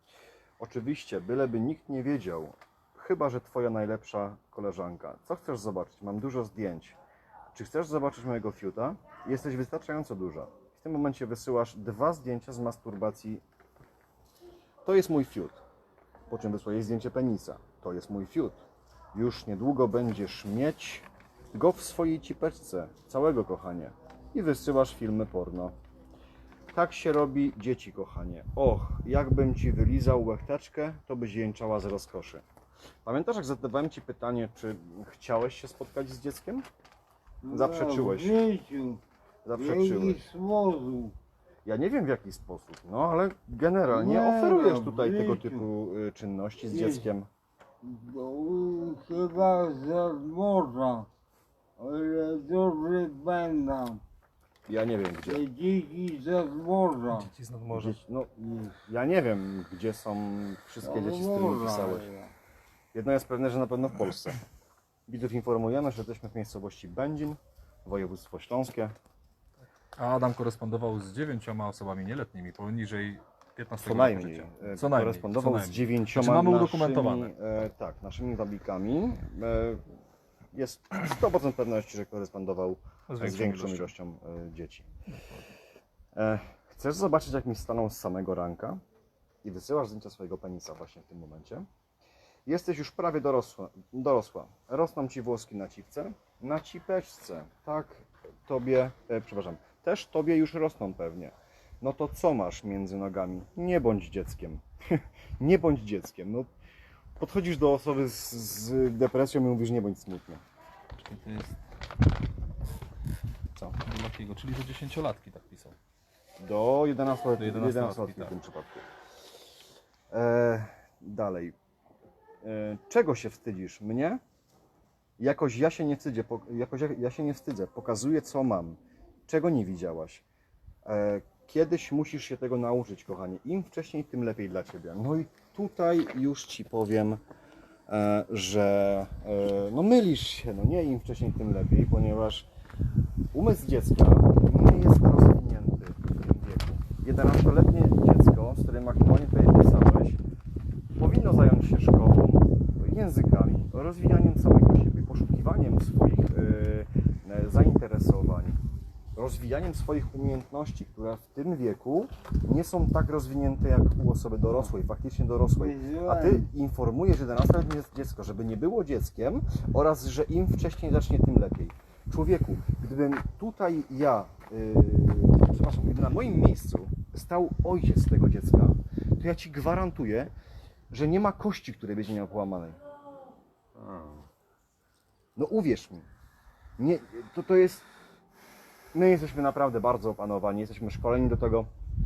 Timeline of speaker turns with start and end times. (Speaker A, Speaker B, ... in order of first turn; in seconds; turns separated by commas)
Speaker A: 0.6-7.0, Speaker A: 7.5-13.4, Speaker A: 14.8-15.6, Speaker A: 16.3-18.6, Speaker A: 19.1-25.8, Speaker A: 26.7-32.4, Speaker A: 33.0-36.6, Speaker B: 37.4-39.0, Speaker A: 37.5-38.4, Speaker A: 39.5-40.2, Speaker B: 39.6-41.1, Speaker A: 41.7-47.3, Speaker B: 43.9-45.7, Speaker B: 46.7-47.1, Speaker B: 47.8-51.1, Speaker B: 51.8-54.0, Speaker A: 54.7-55.4, Speaker B: 55.2-57.3, Speaker C: 57.1-58.0, Speaker A: 57.7-62.1, Speaker B: 58.4-58.7, Speaker B: 60.8-62.3, Speaker A: 62.9-64.4, Speaker A: 65.1-68.9, Speaker C: 70.0-77.3, Speaker A: 73.8-79.8, Speaker A: 80.5-84.9, Speaker C: 83.1-83.9, Speaker C: 85.1-85.5, Speaker A: 86.2-88.8, Speaker A: 89.4-91.7, Speaker A: 92.5-106.5, Speaker A: 107.2-110.4, Speaker C: 111.0-111.6, Speaker C: 113.6-115.8, Speaker A: 116.4-118.8, Speaker C: 117.4-118.3, Speaker A: 120.1-121.6, Speaker A: 122.4-124.2, Speaker A: 125.2-130.2, Speaker A: 130.8-137.2, Speaker A: 137.9-142.5, Speaker A: 143.3-150.2, Speaker A: 151.0-158.6, Speaker A: 159.2-180.3, Speaker B: 165.6-166.5, Speaker A: 180.9-182.8, Speaker B: 183.8-184.3, Speaker A: 185.4-186.1, Speaker A: 186.8-187.9, Speaker A: 188.9-191.7